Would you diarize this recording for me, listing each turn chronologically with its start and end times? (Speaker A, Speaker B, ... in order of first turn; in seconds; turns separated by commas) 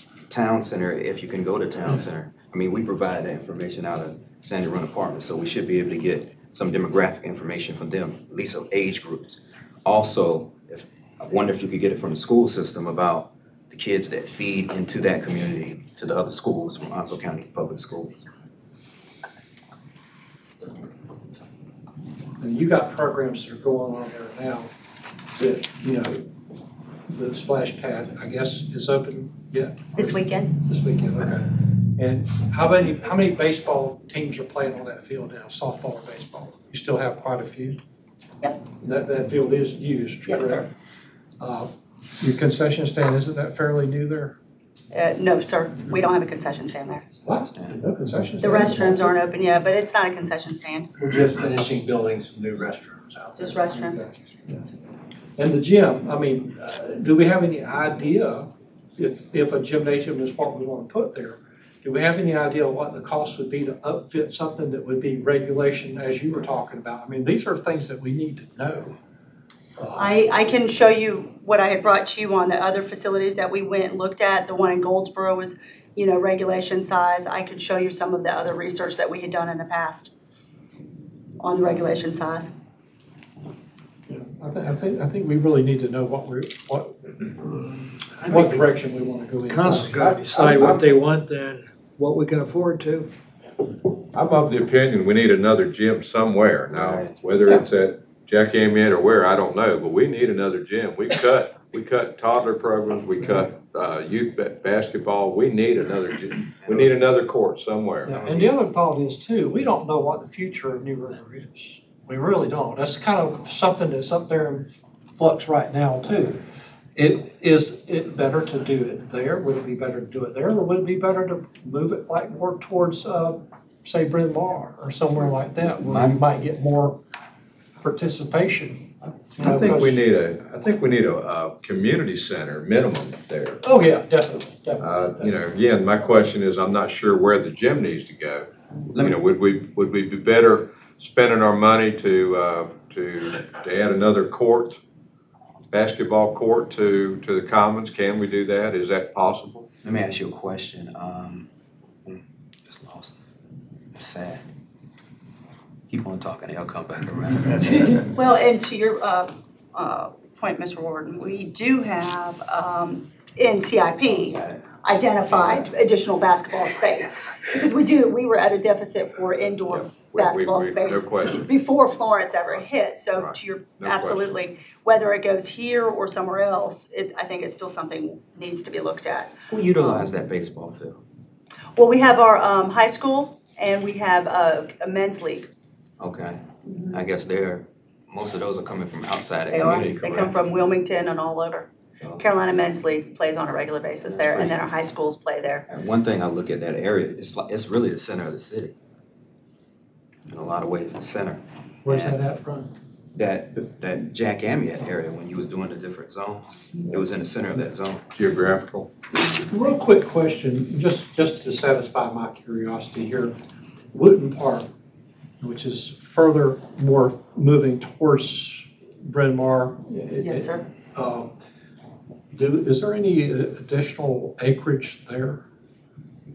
Speaker A: 0.3-18.2, Speaker B: 22.4-24.7, Speaker B: 25.3-26.3, Speaker B: 27.1-37.8, Speaker C: 29.9-30.6, Speaker B: 38.8-40.7, Speaker C: 40.3-40.7, Speaker B: 41.4-44.3, Speaker C: 44.9-47.1, Speaker B: 47.2-49.2, Speaker C: 48.4-50.9, Speaker D: 51.0-53.6, Speaker C: 53.3-54.1, Speaker B: 53.8-54.6, Speaker B: 55.4-69.0, Speaker B: 69.8-70.1, Speaker C: 70.0-80.1, Speaker C: 81.4-82.5, Speaker B: 84.1-91.0, Speaker E: 88.2-88.7, Speaker E: 89.5-93.1, Speaker F: 94.1-108.3, Speaker A: 96.7-97.2, Speaker A: 106.6-106.9, Speaker B: 108.0-116.4, Speaker B: 117.0-127.0, Speaker A: 125.6-126.2, Speaker B: 127.8-130.1, Speaker F: 129.4-133.6, Speaker B: 133.6-135.4, Speaker F: 134.8-144.8, Speaker A: 138.9-139.2, Speaker F: 145.7-149.7, Speaker A: 149.8-151.5, Speaker A: 152.1-153.2, Speaker A: 153.9-154.5, Speaker A: 155.9-158.1, Speaker C: 158.1-180.1, Speaker A: 164.0-164.7, Speaker A: 165.3-165.7, Speaker F: 169.7-171.5, Speaker F: 173.1-174.3, Speaker A: 179.5-181.0, Speaker C: 181.8-185.5, Speaker A: 186.0-190.3, Speaker C: 186.7-186.9, Speaker C: 189.5-195.7, Speaker A: 192.0-192.2, Speaker A: 194.0-194.7, Speaker A: 195.7-198.7, Speaker A: 200.3-202.2, Speaker B: 201.8-202.7, Speaker A: 203.1-208.1, Speaker F: 208.1-208.9, Speaker B: 209.4-213.3, Speaker B: 213.9-214.7, Speaker B: 215.4-221.3, Speaker C: 220.2-220.6, Speaker B: 222.3-225.4